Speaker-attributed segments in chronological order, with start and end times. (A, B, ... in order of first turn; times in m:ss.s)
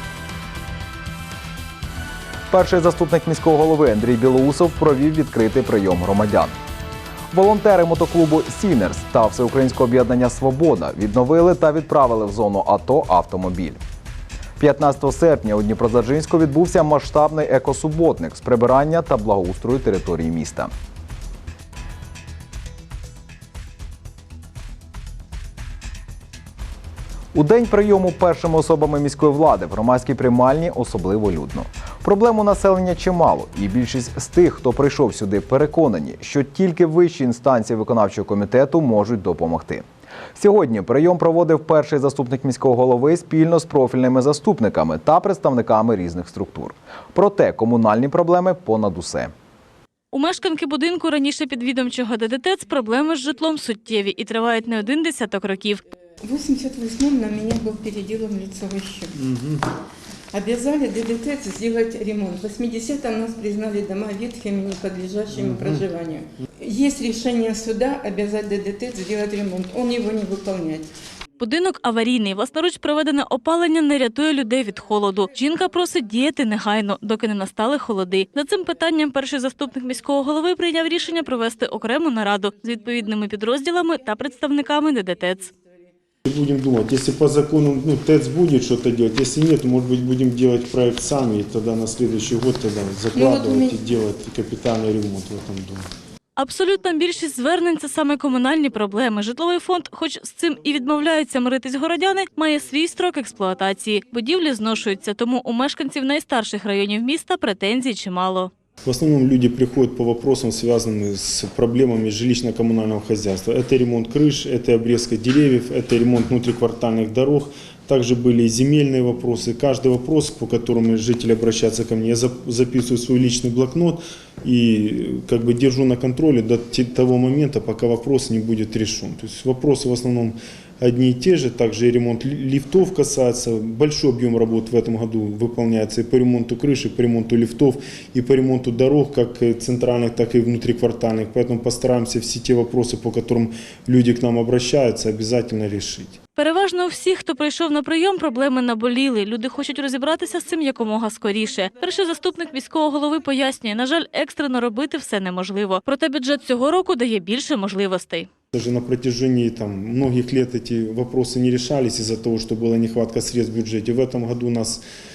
0:02.5-0:06.5 A
0:07.3-0:13.8 A
0:14.6-0:20.7 A
0:27.3-0:39.8 A
0:40.4-0:49.3 A
0:50.1-0:55.8 B
0:56.2-0:59.1 C
0:59.2-0:59.6 D
1:00.3-1:10.9 C
1:05.4-1:05.8 D
1:11.4-1:25.5 B
1:26.2-1:35.9 D
1:33.1-1:33.8 C
1:36.4-1:48.5 B
1:48.8-2:26.2 D
2:26.4-2:38.3 B
2:38.5-2:44.8 D